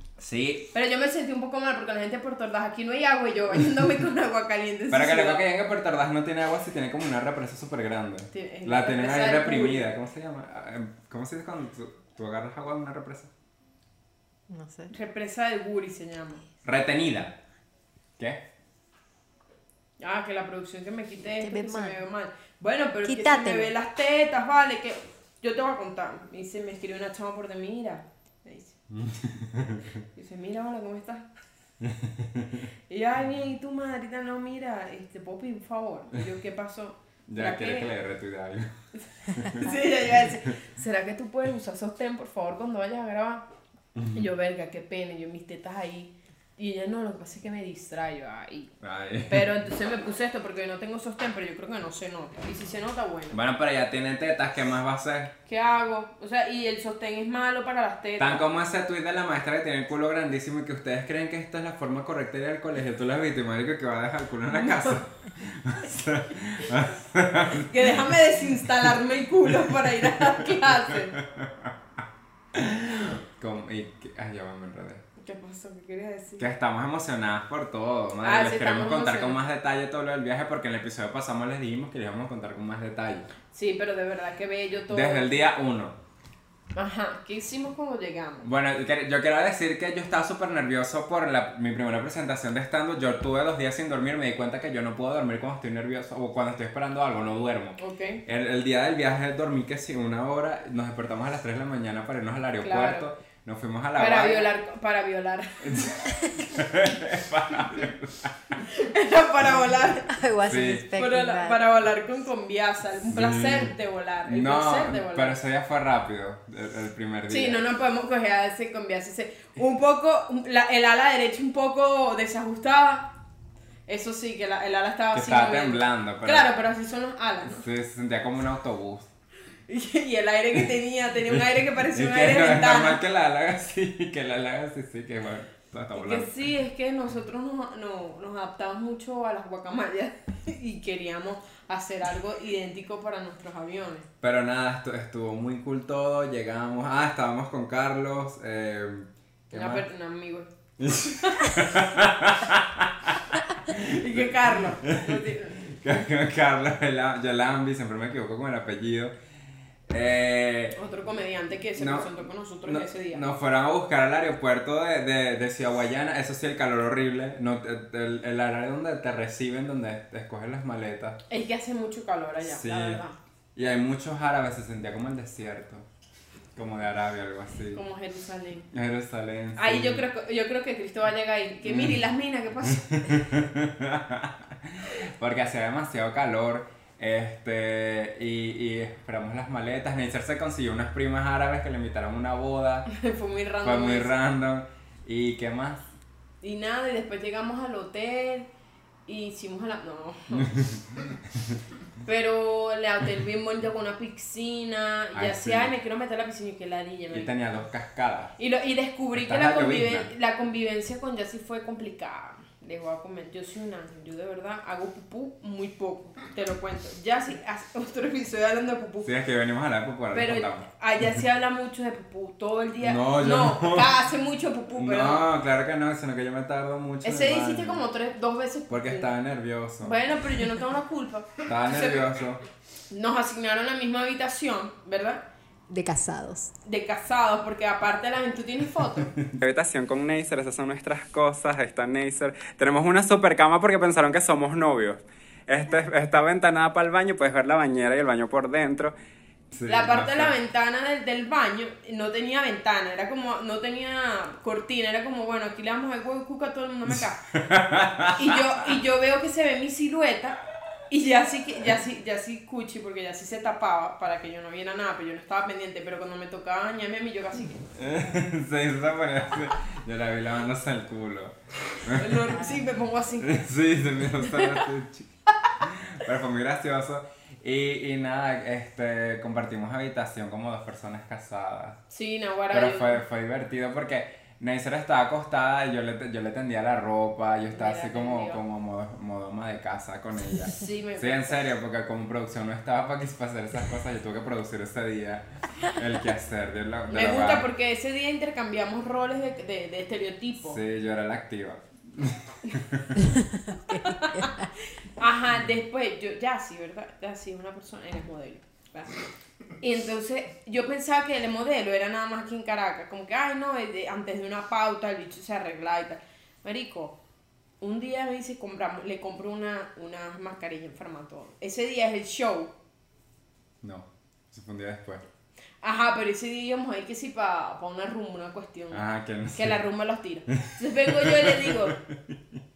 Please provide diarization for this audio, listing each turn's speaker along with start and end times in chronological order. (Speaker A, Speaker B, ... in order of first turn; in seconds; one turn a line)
Speaker A: 0.2-0.7
Speaker B: 0.7-5.4
Speaker A: 4.9-13.3
Speaker B: 8.3-9.9
Speaker C: 14.5-14.9
Speaker B: 14.9-16.4
Speaker A: 16.6-17.4
Speaker B: 20.0-28.8
Speaker C: 21.4-22.0
Speaker C: 23.1-23.7
Speaker A: 28.9-29.8
Speaker B: 30.1-31.2
Speaker A: 31.8-32.7
Speaker B: 32.9-37.9
Speaker A: 37.3-38.7
Speaker A: 39.2-39.8
Speaker B: 39.4-43.5
Speaker A: 44.0-44.3
Speaker B: 44.1-48.7
Speaker A: 48.8-49.5
Speaker B: 49.3-53.4
Speaker A: 53.3-55.3
Speaker B: 55.5-58.5
Speaker A: 58.2-68.6
Speaker B: 67.7-71.2
Speaker A: 69.5-71.8
Speaker A: 72.5-75.0
Speaker B: 75.2-76.5
Speaker A: 76.4-83.3
Speaker B: 78.2-79.4
Speaker B: 83.5-85.4
Speaker A: 84.9-86.0
Speaker B: 86.8-88.5
Speaker A: 88.4-104.5
Speaker B: 97.8-98.2
Speaker B: 102.6-103.1
Speaker B: 104.0-106.4
Speaker A: 105.6-108.4
Speaker B: 108.5-110.1
Speaker C: 110.1-111.7
Speaker A: 110.5-110.9
Speaker B: 110.9-115.4
Speaker A: 113.1-113.7
Speaker A: 114.2-117.6
Speaker B: 117.3-123.1
Speaker B: 123.9-127.6
Speaker A: 125.1-126.5
Speaker A: 127.5-129.1
Speaker B: 129.7-133.0
Speaker A: 131.3-136.3
Speaker B: 135.9-144.1
Speaker A: 144.2-149.9
Speaker B: 149.5-150.5
Speaker A: 150.8-159.1
Speaker B: 151.2-151.6
Speaker B: 153.7-155.6
Speaker A: 159.9-160.8
Speaker B: 160.8-163.2
Speaker A: 161.8-162.1
Speaker A: 162.6-171.2
Speaker B: 171.3-173.2
Speaker A: 172.4-173.0
Speaker A: 173.6-175.9
Speaker A: 176.6-177.8
Speaker B: 177.7-178.7
Speaker A: 178.7-180.1
Speaker B: 179.6-183.3
Speaker A: 181.6-182.0
Speaker A: 183.0-192.9
Speaker B: 192.9-194.1
Speaker A: 193.6-195.9
Speaker B: 196.4-198.5
Speaker B: 199.1-200.6
Speaker B: 202.0-207.3
Speaker A: 205.1-205.7
Speaker A: 207.1-208.3
Speaker B: 208.4-219.1
Speaker A: 209.1-210.1
Speaker A: 219.0-220.7
Speaker B: 220.1-225.3
Speaker A: 222.8-223.9
Speaker A: 224.8-227.8
Speaker B: 227.0-229.1
Speaker A: 228.7-230.0
Speaker B: 229.8-232.1
Speaker A: 231.4-232.4
Speaker B: 232.9-235.2
Speaker C: 235.7-236.5
Speaker B: 236.6-239.2
Speaker A: 239.2-248.9
Speaker A: 249.5-250.3
Speaker B: 249.7-257.2
Speaker A: 256.9-258.4
Speaker B: 258.2-260.4
Speaker B: 260.9-267.6
Speaker A: 267.8-272.4
Speaker B: 271.8-273.4
Speaker A: 273.2-281.8
Speaker B: 274.2-274.6
Speaker B: 281.9-283.0
Speaker A: 282.5-297.5
Speaker B: 287.5-288.4
Speaker B: 290.5-291.4
Speaker B: 296.9-300.6
Speaker A: 300.4-303.0
Speaker C: 303.0-304.5
Speaker B: 303.7-308.9
Speaker B: 309.6-317.0
Speaker B: 317.6-322.5
Speaker A: 323.6-325.0
Speaker B: 325.6-331.8
Speaker A: 328.7-329.6
Speaker A: 330.3-332.2